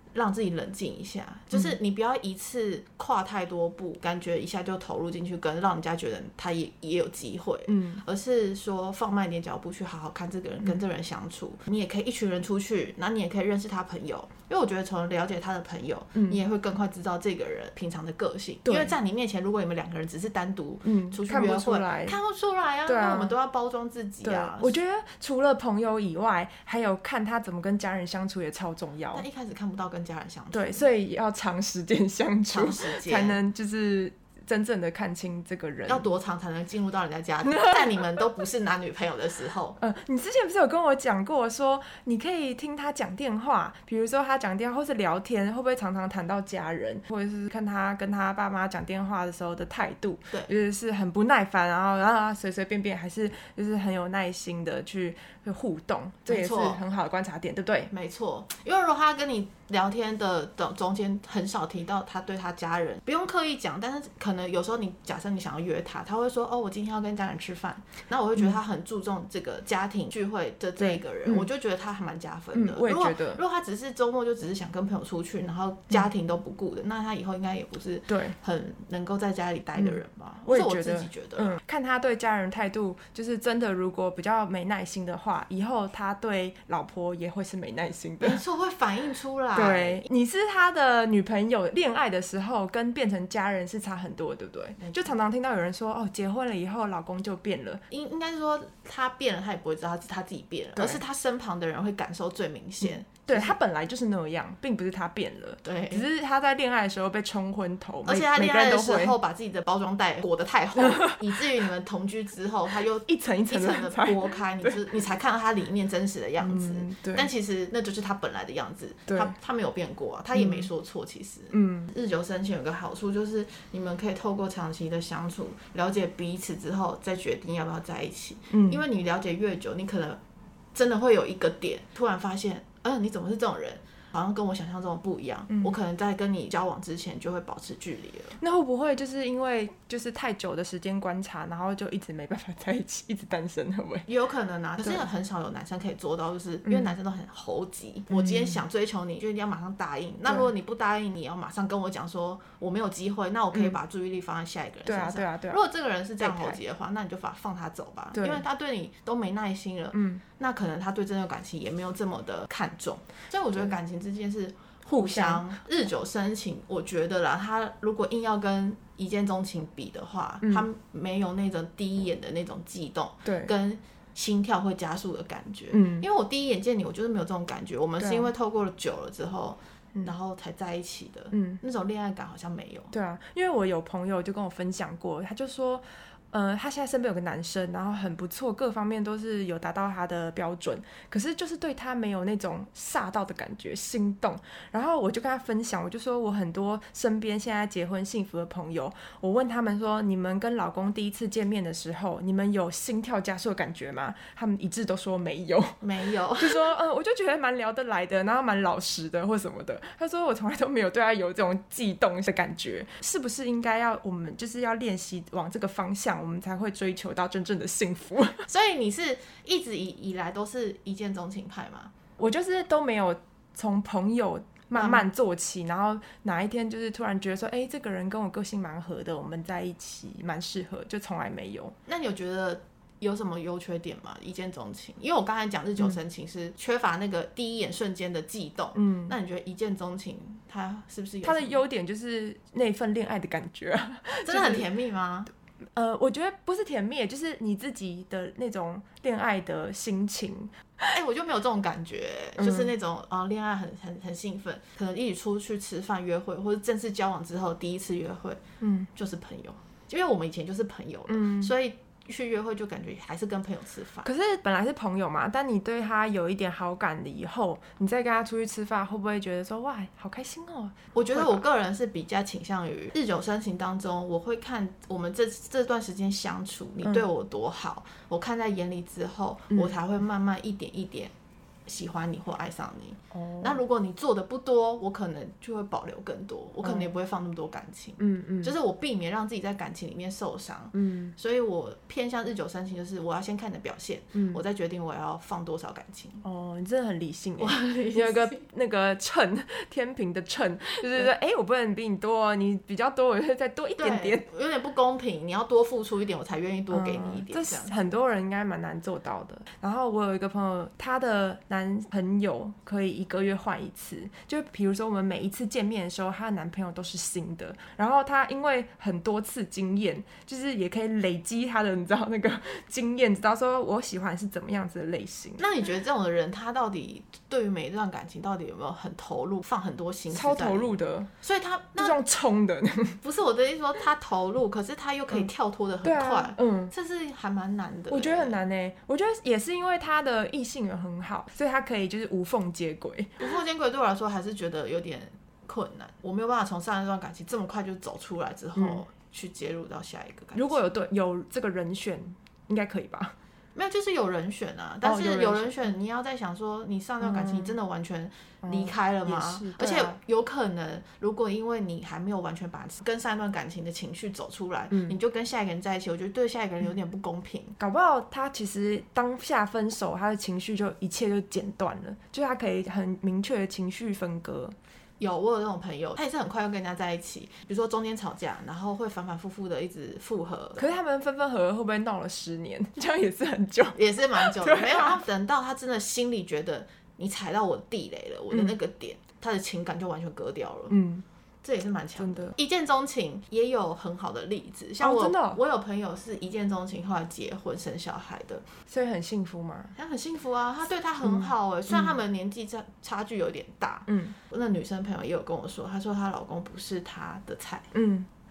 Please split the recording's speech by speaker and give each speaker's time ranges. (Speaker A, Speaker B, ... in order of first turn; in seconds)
Speaker A: 0.1-24.8, 29.1-30.9, 32.5-33.4, 35.9-39.8, 56.3-56.8, 57.9-81.6, 88.2-90.0, 94.8-95.1, 97.9-103.6, 105.6-106.1, 108.1-130.2, 130.8-138.4, 144.1-182.9, 205.8-206.7, 218.5-221.9, 224.8-225.1, 231.9-241.6, 244.3-245.3, 250.9-258.4, 258.9-264.1, 270.9-281.1, 281.7-296.2, 297.4-298.4, 303.8-307.7, 325.4-332.0, 333.0-338.4, 343.2-350.6, 353.6-367.6, 375.0-380.7, 383.8-390.8, 391.4-398.5, 399.8-407.7
Speaker B: 7.7-8.0, 16.1-16.4, 18.7-18.9, 20.8-22.2, 22.9-23.4, 24.2-29.2, 30.5-36.1, 39.8-57.9, 70.8-71.5, 72.5-73.4, 78.1-78.4, 79.8-88.4, 89.5-97.8, 100.8-101.0, 102.8-109.2, 110.8-111.2, 113.1-114.8, 116.4-117.3, 119.1-119.3, 120.3-120.7, 121.5-121.9, 128.5-128.8, 138.4-144.1, 146.7-147.0, 148.1-148.6, 154.8-155.6, 156.2-156.6, 158.2-158.4, 159.9-160.2, 164.9-165.5, 173.2-173.5, 175.7-176.1, 178.0-178.3, 181.3-181.6, 182.9-205.8, 206.4-218.5, 222.2-231.7, 238.8-239.2, 241.2-244.7, 245.8-250.9, 252.4-252.7, 258.6-258.9, 261.1-261.5, 264.0-271.4, 283.1-283.6, 286.6-286.9, 288.0-288.5, 290.7-291.1, 294.1-294.4, 296.2-304.2, 306.7-325.4, 330.1-331.1, 331.8-333.0, 335.8-336.7, 337.9-343.2, 348.6-348.8, 350.4-353.1, 354.8-355.7, 357.0-357.6, 358.4-360.0, 364.7-365.0, 367.6-374.6, 380.6-385.0, 390.7-391.1, 392.0-392.4, 394.8-395.4, 398.7-399.8, 401.0-401.9, 403.9-404.2, 407.7-408.1